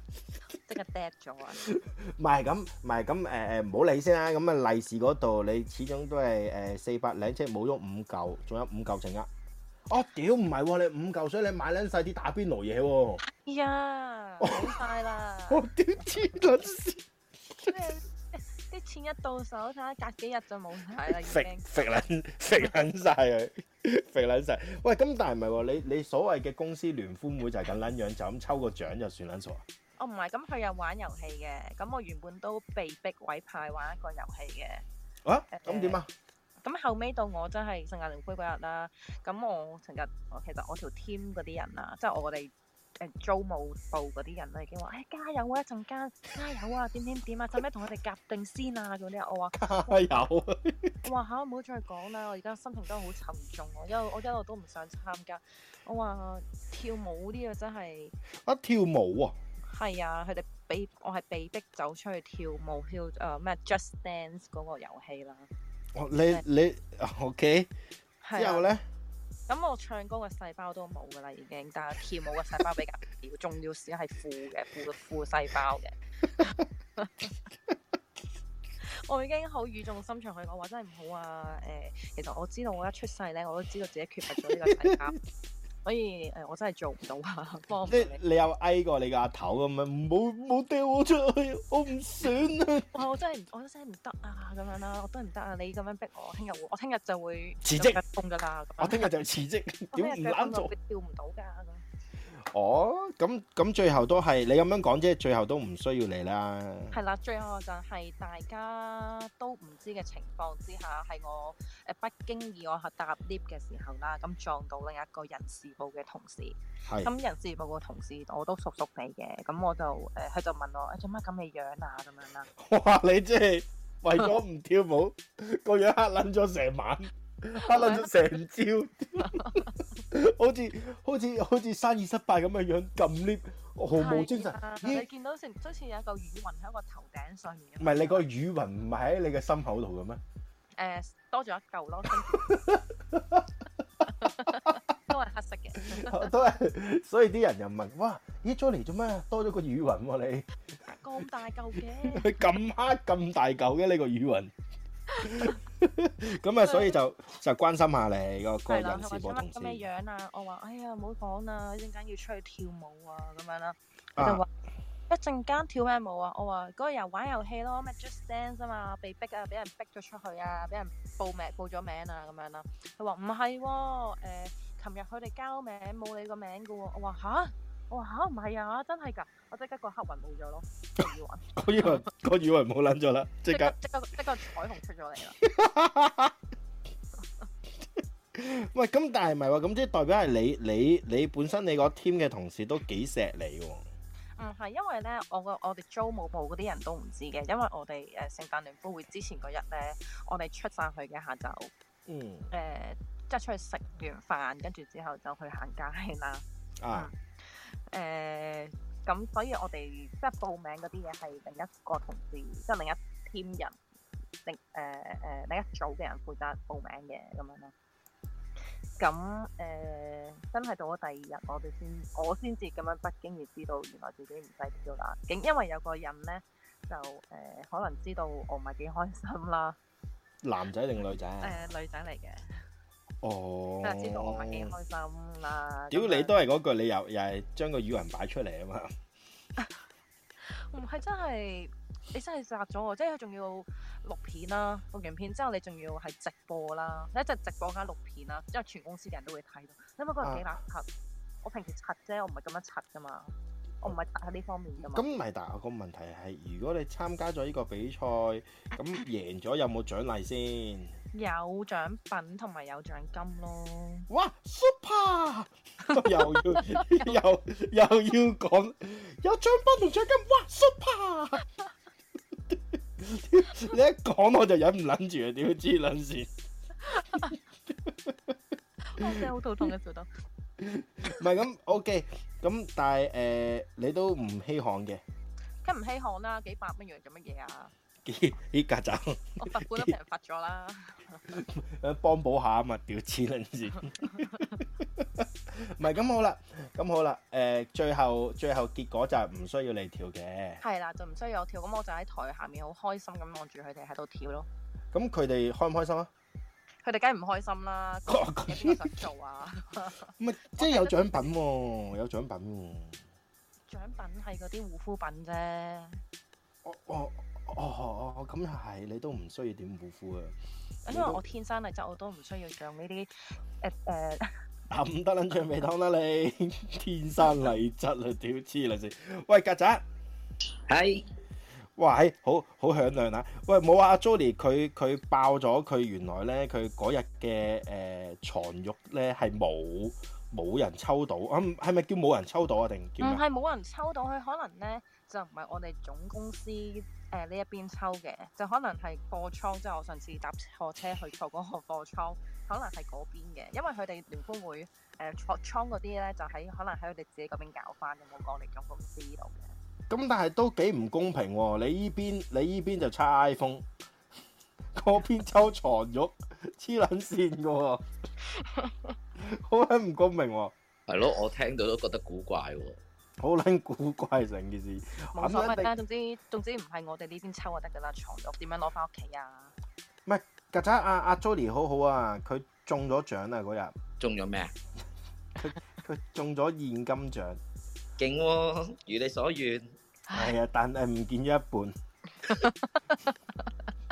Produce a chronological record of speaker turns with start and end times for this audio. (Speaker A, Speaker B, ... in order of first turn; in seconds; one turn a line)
Speaker A: 0.5-1.6
Speaker B: 1.6-9.3
Speaker B: 9.9-13.2
Speaker A: 13.3-16.1
Speaker B: 14.4-14.8
Speaker B: 15.5-17.0
Speaker A: 17.6-22.1
Speaker B: 21.1-29.6
Speaker A: 30.0-34.8
Speaker B: 35.2-36.1
Speaker A: 35.5-36.0
Speaker A: 36.6-50.1
Speaker B: 49.5-50.9
Speaker A: 51.0-58.1
Speaker B: 58.5-59.4
Speaker A: 59.7-65.5
Speaker B: 66.0-67.7
Speaker A: 68.2-68.7
Speaker B: 68.4-68.8
Speaker A: 69.5-77.3
Speaker A: 78.8-85.2
Speaker B: 84.3-85.1
Speaker A: 85.8-88.2
Speaker B: 87.8-92.9
Speaker A: 92.9-99.1
Speaker B: 97.6-98.0
Speaker B: 98.8-100.7
Speaker A: 99.9-101.8
Speaker B: 102.5-107.0
Speaker A: 106.9-122.5
Speaker B: 116.9-117.1
Speaker B: 122.6-135.1
Speaker A: 127.6-128.1
Speaker A: 129.2-129.7
Speaker A: 133.9-138.2
Speaker B: 137.8-140.2
Speaker A: 140.8-142.5
Speaker B: 142.3-143.5
Speaker A: 144.1-146.3
Speaker B: 144.2-144.7
Speaker B: 145.9-150.5
Speaker A: 150.9-152.5
Speaker B: 152.1-154.5
Speaker B: 155.2-159.8
Speaker A: 155.2-155.5
Speaker A: 156.7-157.0
Speaker A: 158.7-164.5
Speaker B: 164.2-164.4
Speaker A: 165.1-182.0
Speaker B: 181.6-183.8
Speaker A: 183.5-185.4
Speaker B: 185.4-186.3
Speaker B: 188.3-193.8
Speaker A: 194.4-201.7
Speaker B: 202.1-202.5
Speaker A: 202.5-213.8
Speaker B: 206.8-207.1
Speaker A: 214.4-217.7
Speaker A: 219.0-229.8
Speaker B: 230.4-231.6
Speaker A: 231.4-232.5
Speaker B: 233.2-234.7
Speaker A: 233.8-236.3
Speaker B: 235.9-238.9
Speaker A: 240.5-250.9
Speaker B: 250.2-250.5
Speaker A: 251.4-255.1
Speaker B: 254.8-261.0
Speaker A: 261.1-264.1
Speaker B: 264.1-271.4
Speaker A: 265.8-267.1
Speaker B: 272.5-276.3
Speaker A: 276.8-277.4
Speaker B: 277.8-278.4
Speaker A: 278.8-280.1
Speaker B: 279.0-279.2
Speaker B: 280.6-285.0
Speaker A: 285.6-287.7
Speaker B: 288.1-289.9
Speaker A: 289.4-291.4
Speaker B: 291.3-300.6
Speaker A: 294.2-294.5
Speaker A: 300.6-304.5
Speaker B: 304.9-306.1
Speaker A: 306.8-311.3
Speaker B: 308.1-308.9
Speaker B: 310.2-313.0
Speaker A: 313.7-316.0
Speaker B: 316.6-320.4
Speaker A: 320.9-324.3
Speaker B: 320.9-321.2
Speaker B: 324.7-329.8
Speaker C: 330.7-331.0
Speaker B: 331.8-343.2
Speaker A: 343.0-359.5
Speaker B: 359.9-363.7
Speaker B: 364.8-367.8
Speaker A: 368.4-368.9
Speaker B: 369.2-370.5
Speaker C: 370.9-372.8
Speaker B: 373.2-375.7
Speaker A: 375.1-379.5
Speaker B: 380.1-383.8
Speaker C: 384.0-384.5
Speaker B: 385.4-387.4
Speaker C: 388.0-389.7
Speaker B: 390.1-391.8